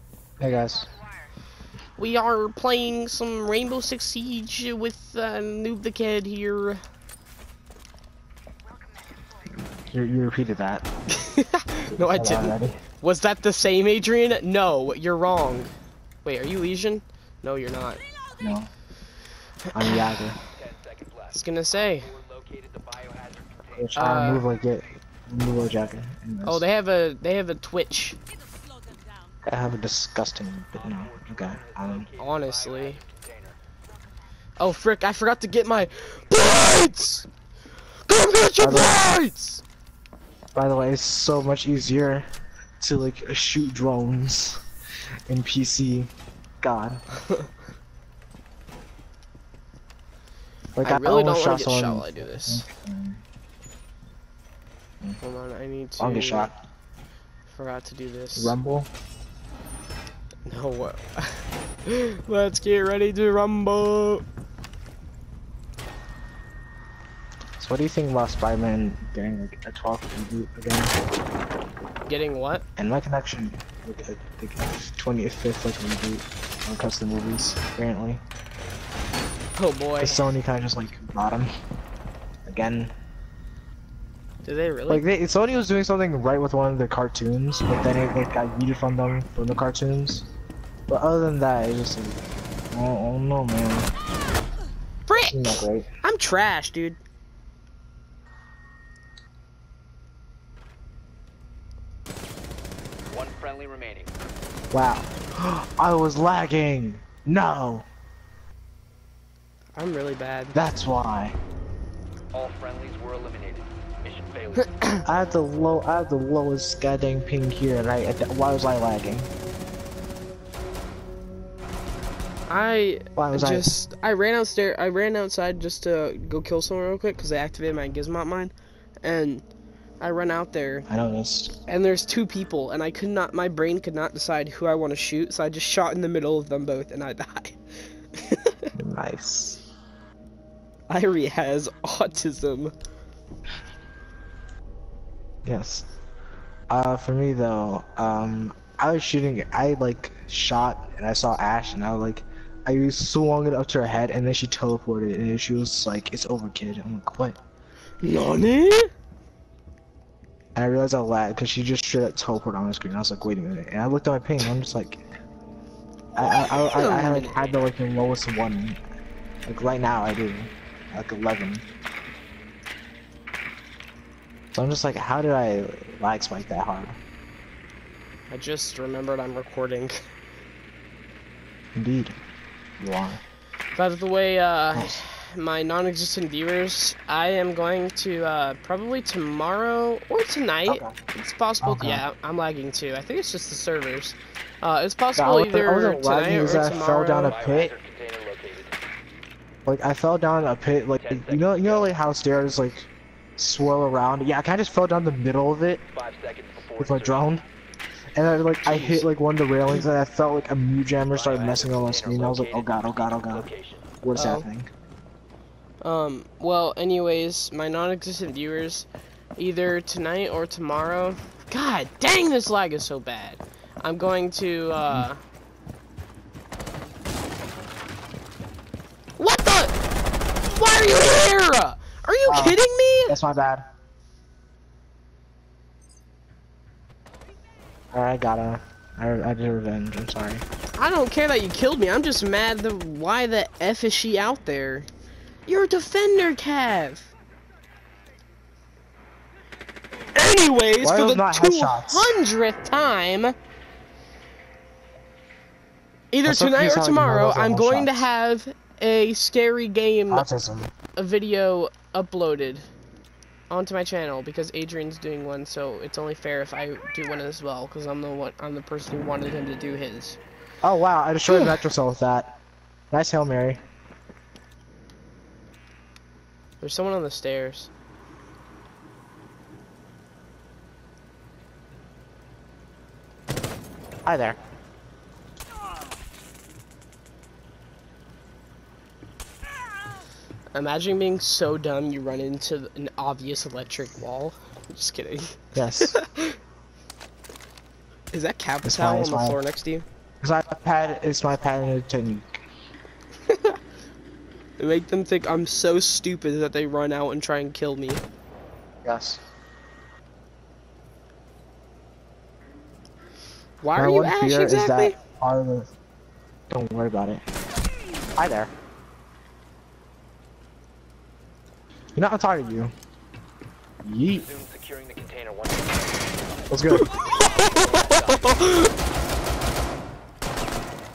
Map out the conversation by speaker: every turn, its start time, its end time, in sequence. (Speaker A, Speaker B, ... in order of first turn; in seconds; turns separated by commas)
Speaker A: 0.4-0.9, Speaker B: 2.0-6.8, Speaker A: 9.6-10.9, Speaker B: 11.1-15.7, Speaker A: 11.9-12.8, Speaker B: 16.2-18.0, Speaker A: 18.4-18.7, Speaker A: 19.7-20.4, Speaker B: 19.8-20.1, Speaker C: 20.5-24.1, Speaker B: 21.3-22.1, Speaker A: 23.8-26.6, Speaker B: 23.9-24.4, Speaker B: 26.4-28.2, Speaker A: 29.4-32.1, Speaker C: 30.7-33.6, Speaker B: 32.2-33.0, Speaker B: 34.6-37.3, Speaker B: 38.1-39.6, Speaker A: 38.6-39.0, Speaker A: 40.5-42.3, Speaker A: 42.8-44.6, Speaker A: 45.3-47.0, Speaker A: 50.8-53.2, Speaker B: 50.8-52.6, Speaker B: 55.2-56.5, Speaker A: 56.0-56.6, Speaker B: 57.5-58.5, Speaker A: 58.3-58.9, Speaker B: 60.5-64.2, Speaker A: 67.6-71.0, Speaker B: 72.0-72.6, Speaker A: 72.8-78.2, Speaker B: 79.6-80.3, Speaker A: 80.0-81.5, Speaker A: 82.4-82.9, Speaker B: 84.4-85.0, Speaker A: 84.9-90.3, Speaker A: 90.9-93.9, Speaker B: 95.1-97.0, Speaker A: 95.3-95.9, Speaker C: 103.1-104.1, Speaker A: 104.7-107.8, Speaker B: 109.8-110.6, Speaker A: 110.5-111.4, Speaker C: 112.3-114.8, Speaker B: 114.6-115.0, Speaker A: 115.0-119.3, Speaker B: 122.5-128.5, Speaker A: 123.2-123.7, Speaker B: 129.0-129.4, Speaker B: 130.0-130.9, Speaker A: 130.9-131.6, Speaker B: 131.7-137.6, Speaker B: 138.1-138.7, Speaker A: 138.7-139.6, Speaker B: 140.9-142.7, Speaker A: 145.4-145.9, Speaker A: 146.7-157.4, Speaker B: 158.0-158.9, Speaker A: 160.6-165.0, Speaker A: 166.2-168.8, Speaker B: 166.4-167.4, Speaker A: 169.4-171.6, Speaker A: 174.5-177.0, Speaker B: 178.3-180.0, Speaker A: 181.7-182.2, Speaker A: 182.8-183.2, Speaker B: 183.8-197.3, Speaker A: 184.7-185.0, Speaker A: 190.7-190.9, Speaker A: 191.6-192.0, Speaker A: 195.2-197.7, Speaker C: 196.5-198.7, Speaker A: 199.6-205.8, Speaker C: 201.0-201.9, Speaker C: 205.9-207.3, Speaker A: 206.8-207.4, Speaker A: 208.1-213.5, Speaker B: 208.6-209.1, Speaker C: 211.1-213.9, Speaker A: 214.0-214.7, Speaker B: 214.1-214.5, Speaker B: 215.8-225.2, Speaker B: 229.2-229.7, Speaker B: 230.4-233.2, Speaker A: 232.2-233.7, Speaker A: 237.9-240.4, Speaker B: 240.8-244.9, Speaker B: 245.4-247.1, Speaker B: 250.1-253.3, Speaker A: 250.8-252.2, Speaker B: 256.1-260.2, Speaker A: 256.2-258.1, Speaker A: 260.1-260.7, Speaker B: 260.9-262.7, Speaker B: 263.5-270.2, Speaker A: 270.6-272.4, Speaker B: 271.3-271.6, Speaker A: 272.9-273.6, Speaker B: 276.6-277.7, Speaker A: 284.0-284.4, Speaker B: 290.5-296.4, Speaker A: 295.5-295.9, Speaker B: 298.1-299.8, Speaker A: 298.6-299.4, Speaker A: 300.2-302.4, Speaker B: 303.2-303.6, Speaker B: 304.6-308.0, Speaker A: 308.8-309.2, Speaker B: 313.6-315.0, Speaker A: 313.8-315.7, Speaker A: 316.5-317.2, Speaker A: 318.1-318.5, Speaker A: 321.9-322.7, Speaker A: 323.8-324.3, Speaker C: 324.1-328.7, Speaker A: 326.5-326.9, Speaker B: 326.7-328.7